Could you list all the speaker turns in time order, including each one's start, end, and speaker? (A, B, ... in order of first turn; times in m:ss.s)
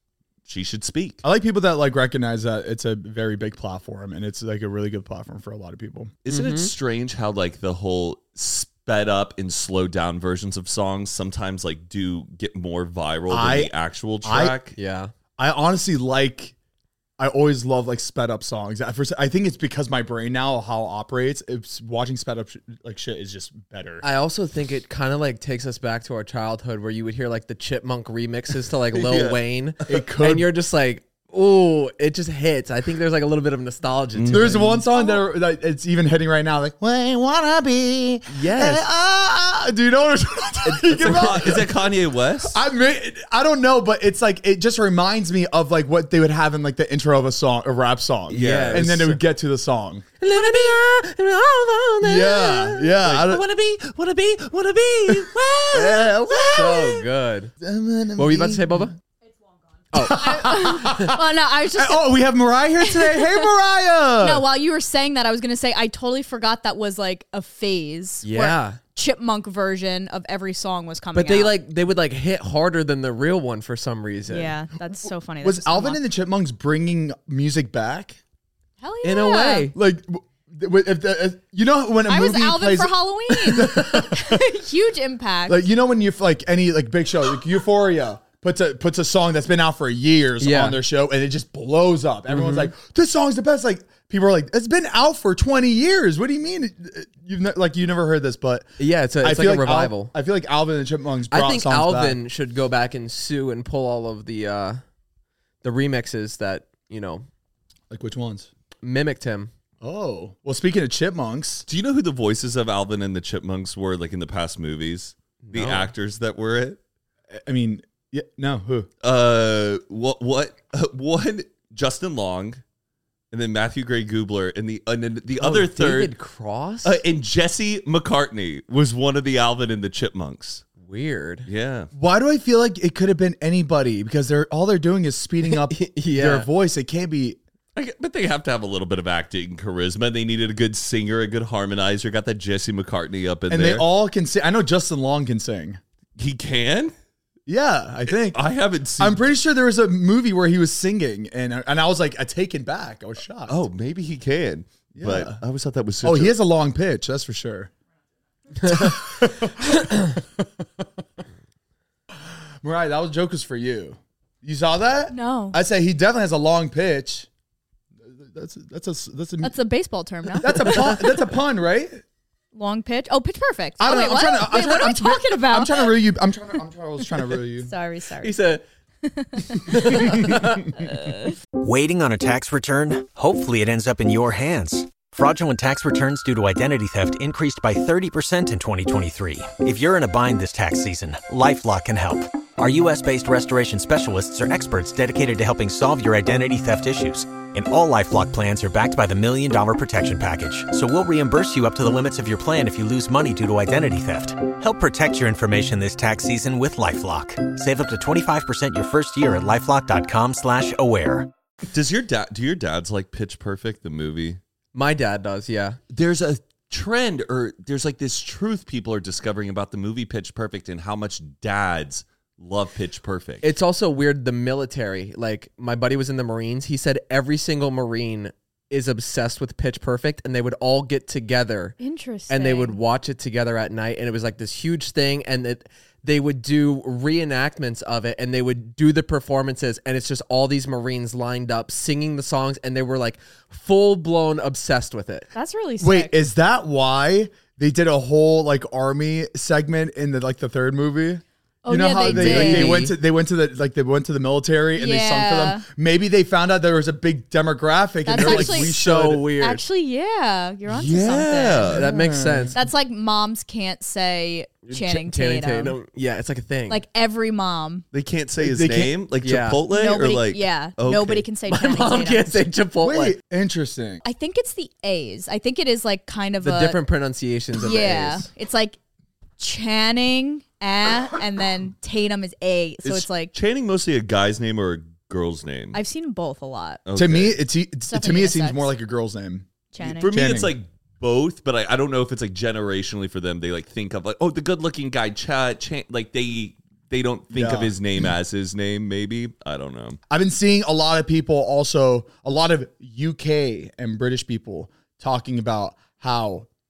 0:00.5-0:01.2 A
0:01.2-0:06.1 B
0:06.2-0:14.8 A
0:06.3-0:06.7 C
0:13.3-0:13.7 B
0:14.2-0:14.6 B
0:14.8-0:15.1 C
0:15.4-0:16.5 B
0:17.2-0:24.0 B
0:24.0-0:34.9 C
0:28.9-0:29.4 A
0:29.9-0:30.5 B
0:34.2-0:34.8 A
0:34.3-0:41.8 B
0:38.3-0:38.8 C
0:40.7-0:42.6 A
0:42.4-0:50.0 B
0:48.3-0:49.2 C
0:48.3-0:49.1 A
0:50.2-0:52.9 C
0:52.0-0:53.4 B
0:53.0-0:55.9 A
0:55.7-0:57.0 B
0:56.3-0:57.5 C
0:57.6-0:58.9 B
0:58.2-0:59.0 C
0:59.9-1:01.1 C
1:00.0-1:01.2 B
1:00.0-1:02.1 D
1:01.7-1:04.4 B
1:02.8-1:03.4 D
1:04.2-1:11.5 D
1:08.2-1:08.8 C
1:11.1-1:14.5 C
1:14.3-1:16.0 D
1:15.4-1:18.2 B
1:18.8-1:19.7 D
1:19.0-1:19.8 C
1:19.7-1:24.5 B
1:22.1-1:25.6 D
1:25.5-1:42.2 B
1:30.4-1:30.8 C
1:32.3-1:32.7 C
1:38.8-1:40.1 C
1:41.3-1:44.8 C
1:45.6-1:47.3 C
1:47.9-1:48.5 B
1:48.8-1:49.5 C
1:49.8-1:51.7 B
1:51.7-1:56.8 A
1:55.4-1:55.9 C
1:57.3-1:58.9 B
1:59.0-2:02.6 A
2:03.3-2:06.2 A
2:05.4-2:07.0 C
2:06.8-2:10.6 A
2:10.8-2:11.5 C
2:11.5-2:11.9 A
2:11.9-2:17.4 B
2:15.5-2:16.5 C
2:17.8-2:23.8 A
2:23.5-2:25.8 B
2:26.2-2:26.9 A
2:27.5-2:28.4 B
2:28.3-2:29.2 A
2:29.0-2:33.6 B
2:33.5-2:36.4 A
2:35.0-2:35.4 B
2:36.0-2:37.7 B
2:38.6-2:40.8 B
2:38.6-2:38.9 C
2:39.8-2:40.1 C
2:42.3-2:47.3 B
2:45.1-2:45.6 D
2:48.0-2:49.5 B
2:49.4-2:51.1 D
2:50.3-2:52.0 B
2:52.5-2:55.9 D
2:53.8-2:57.7 B
2:57.1-2:58.4 D
2:58.2-2:58.6 C
2:59.0-3:01.4 D
2:59.6-3:00.7 C
3:00.0-3:00.4 B
3:01.6-3:31.3 E
3:31.7-3:34.4 A
3:34.7-3:35.8 C
3:35.9-3:43.4 A
3:43.4-3:51.8 C
3:51.8-3:52.8 D
3:52.3-4:05.3 C
4:05.3-4:06.2 D
4:05.8-4:19.3 B
4:11.6-4:12.9 D
4:12.0-4:13.0 C
4:14.8-4:15.6 D
4:18.0-4:18.7 D
4:18.2-4:19.6 C
4:19.4-4:21.9 D
4:20.7-4:21.8 A
4:21.7-4:22.6 B
4:21.8-4:22.6 C
4:22.5-4:25.8 D
4:24.7-4:26.8 C
4:26.7-4:27.8 D
4:27.9-4:31.3 A
4:28.4-4:28.9 B
4:29.2-4:29.6 C
4:29.7-4:32.4 D
4:31.5-4:33.2 C
4:32.8-4:34.0 B
4:34.0-4:36.8 D
4:36.4-4:38.3 C
4:37.6-4:38.8 D
4:39.4-4:43.3 D
4:42.8-4:45.8 A
4:45.7-4:46.8 D
4:46.8-4:47.4 A
4:47.0-4:49.5 B
4:47.9-4:48.7 D
4:49.7-4:50.1 D
4:49.8-5:00.0 A
4:50.0-4:50.5 B
4:57.3-4:57.7 B
5:00.1-5:06.5 B